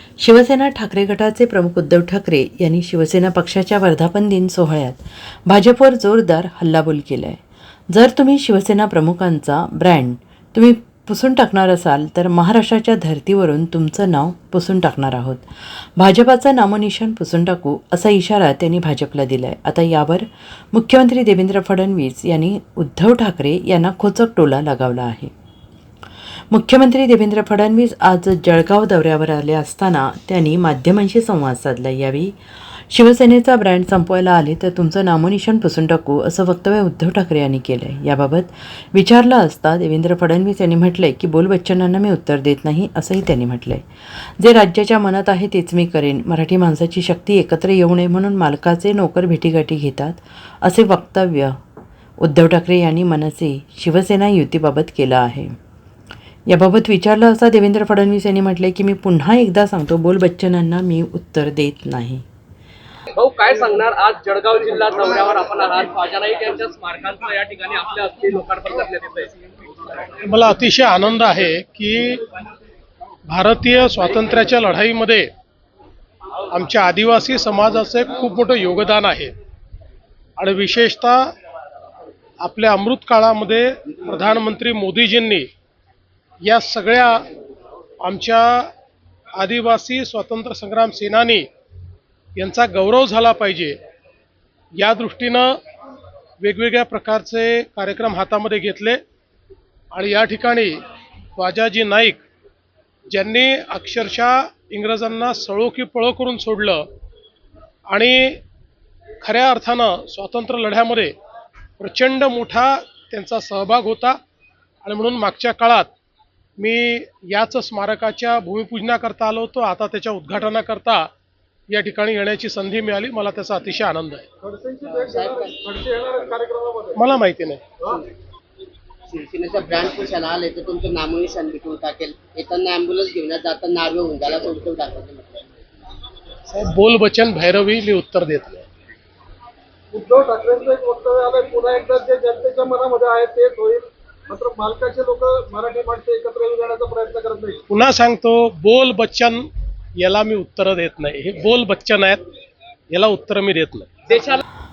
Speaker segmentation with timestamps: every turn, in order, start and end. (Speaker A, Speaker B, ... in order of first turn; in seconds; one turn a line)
Speaker A: 0.2-25.3
Speaker A: 26.5-51.5
Speaker A: 52.2-55.5
Speaker A: 56.5-62.2
Speaker B: 63.1-69.4
Speaker C: 70.2-72.2
Speaker C: 73.3-75.3
Speaker C: 76.5-79.3
Speaker C: 80.4-81.2
Speaker C: 82.4-85.5
Speaker C: 86.4-87.2
Speaker C: 88.0-88.7
Speaker C: 89.4-91.5
Speaker C: 92.4-93.8
Speaker C: 94.8-95.5
Speaker C: 96.4-99.0
Speaker C: 99.9-100.7
Speaker C: 101.4-102.2
Speaker C: 103.1-106.8
Speaker C: 107.9-108.4
Speaker C: 109.2-111.1
Speaker C: 111.8-114.2
Speaker C: 114.8-115.9
Speaker C: 116.6-121.0
Speaker C: 121.7-124.3
Speaker D: 124.4-127.0
Speaker E: 124.8-125.6
Speaker C: 127.0-127.6
Speaker E: 129.1-135.6
Speaker C: 136.5-138.7
Speaker D: 139.9-147.6
Speaker C: 147.7-149.4
Speaker C: 150.0-152.2
Speaker C: 152.9-153.9
Speaker B: 154.1-154.4